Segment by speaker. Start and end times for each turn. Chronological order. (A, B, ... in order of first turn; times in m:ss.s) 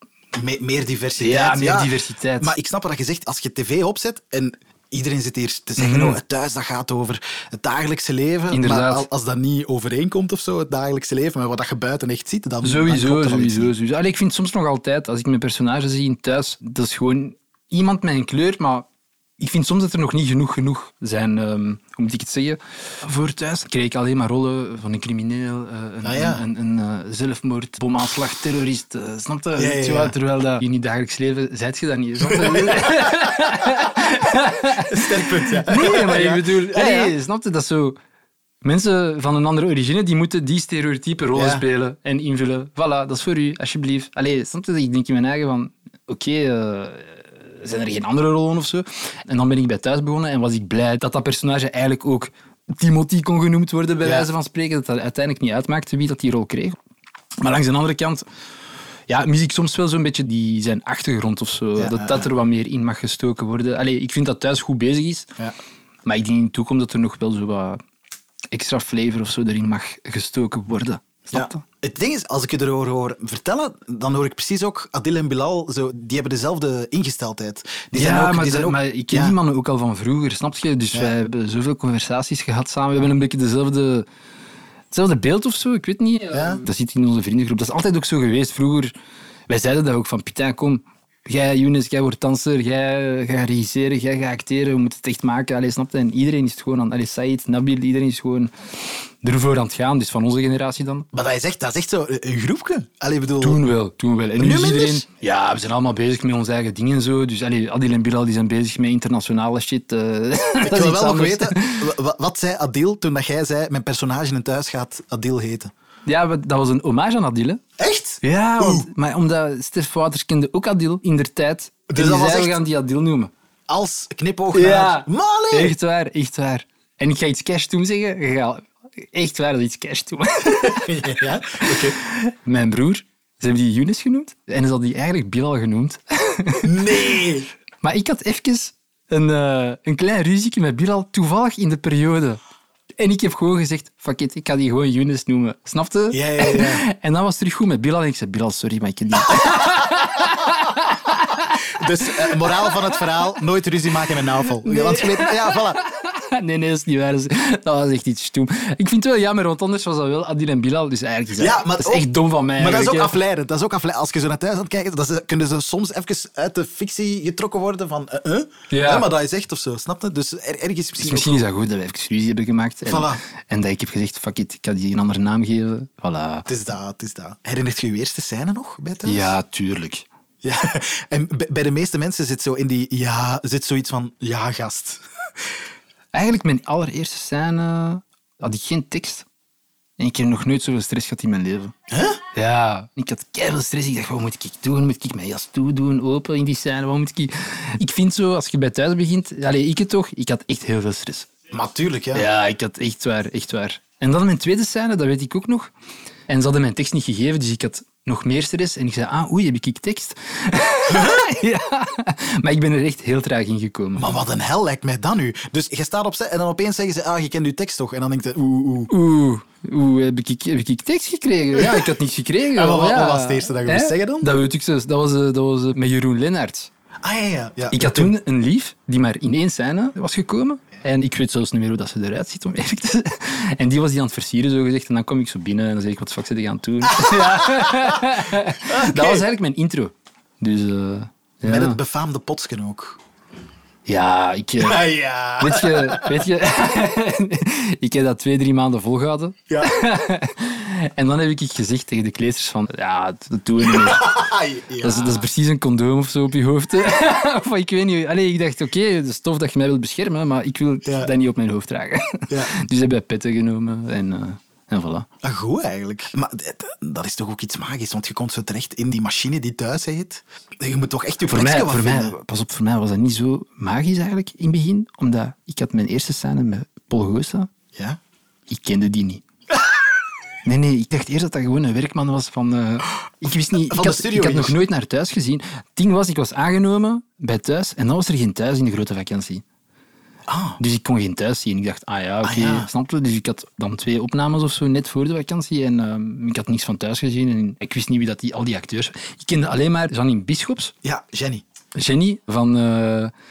0:00.3-0:13.7 A
0:01.2-0:02.5 B
0:05.8-0:06.2 B
0:08.5-0:09.1 B
0:12.6-0:18.9 B
0:19.4-0:38.0 B
0:26.0-0:26.4 A
0:29.6-0:30.2 A
0:32.2-0:33.7 A
0:34.7-0:37.1 A
0:38.6-0:56.8 B
0:41.3-0:41.6 A
0:54.0-0:54.3 A
0:57.4-0:58.3 B
0:59.1-1:05.3 B
1:01.8-1:02.3 A
1:06.0-1:07.8 B
1:08.5-1:11.6 B
1:11.3-1:19.4 A
1:17.9-1:24.1 B
1:24.9-1:28.9 B
1:26.3-1:26.6 A
1:29.5-1:41.1 B
1:41.1-1:43.6 A
1:43.4-1:51.9 B
1:44.4-1:45.1 A
1:50.6-1:55.7 A
1:56.1-1:57.6 B
1:57.8-1:58.9 A
1:58.2-2:03.3 B
2:01.9-2:02.6 A
2:03.7-2:05.7 A
2:04.5-2:17.2 B
2:10.6-2:12.0 A
2:16.6-2:17.5 A
2:17.8-2:22.4 B
2:23.0-2:33.1 B
2:26.1-2:26.9 A
2:29.3-2:29.8 A
2:31.6-2:35.8 A
2:34.5-2:43.2 B
2:41.4-2:51.4 A
2:48.7-2:49.1 B
2:51.0-2:56.5 B
2:52.9-2:53.2 A
2:56.5-2:59.3 A
2:59.0-3:00.1 B
3:00.4-3:05.0 A
3:06.1-3:09.3 B
3:10.0-3:11.7 B
3:11.9-3:12.2 A
3:12.3-3:21.3 B
3:21.5-3:22.3 A
3:22.1-3:25.7 B
3:26.3-3:34.2 B
3:30.9-3:31.3 A
3:34.0-3:38.9 A
3:38.9-3:46.7 B
3:41.6-3:41.9 A
3:42.6-3:44.3 A
3:47.0-3:48.1 A
3:47.7-4:01.8 B
3:56.9-3:58.0 A
3:58.6-3:59.2 A
4:01.4-4:03.0 A
4:03.9-4:14.2 B
4:04.6-4:06.2 A
4:09.5-4:09.7 A
4:13.6-4:15.3 A
4:14.8-4:25.1 B
4:20.8-4:21.1 A
4:22.3-4:22.5 A
4:25.2-4:32.2 A
4:31.3-4:37.5 B
4:38.5-4:39.2 B
4:40.4-4:49.4 B
4:43.6-4:44.6 A
4:50.3-4:50.6 A
4:50.6-5:00.8 B
4:52.2-4:52.7 A
5:00.8-5:01.4 A
5:01.8-5:03.1 B